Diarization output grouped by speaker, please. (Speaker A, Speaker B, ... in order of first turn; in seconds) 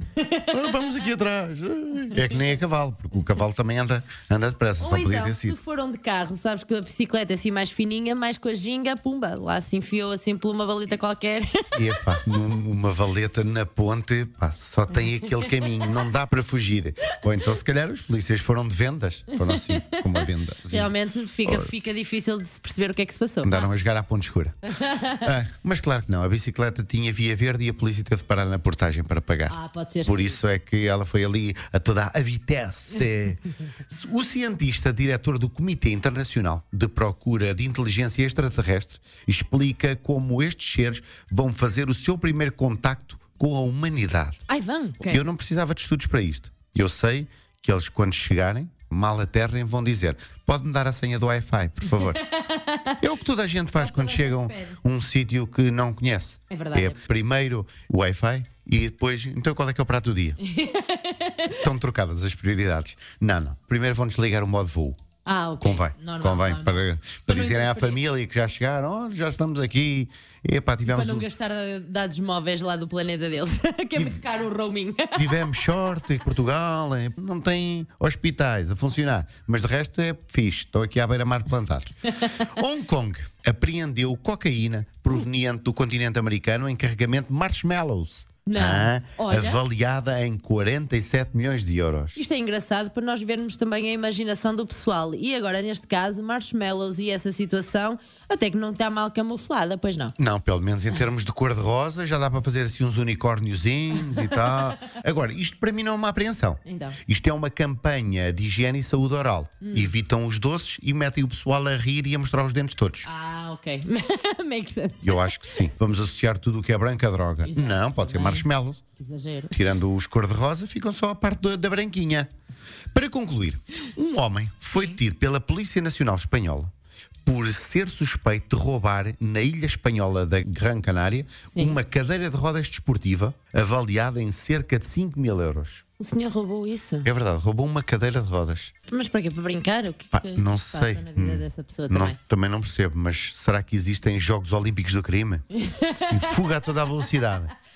Speaker A: 0.2-0.9, 4.8-12.2, 14.9-16.1, 19.3-23.7, 24.7-25.3, 29.5-30.4, 44.5-45.2, 51.9-53.0, 53.8-54.8, 56.5-57.0, 60.4-61.6, 65.2-68.0, 70.8-76.2, 82.1-82.5, 88.5-89.6, 92.2-100.2, 104.0-104.7, 106.7-107.0, 109.6-109.9, 113.0-115.4, 117.4-118.5, 119.0-119.5, 124.7-125.0, 131.5-131.8, 136.0-137.1, 138.9-142.2, 145.6-147.3
Speaker B: 0.5-5.6, 11.7-20.9, 21.5-21.7, 23.4-24.6, 25.2-44.4, 45.0-52.2, 53.0-60.4, 61.6-65.0, 65.6-71.3, 74.0-74.2, 75.2-81.9, 82.5-92.2, 100.2-113.1, 115.0-118.8, 119.5-122.3, 122.9-126.7, 127.2-135.8, 137.0-138.7, 140.1-145.4, 146.0-147.5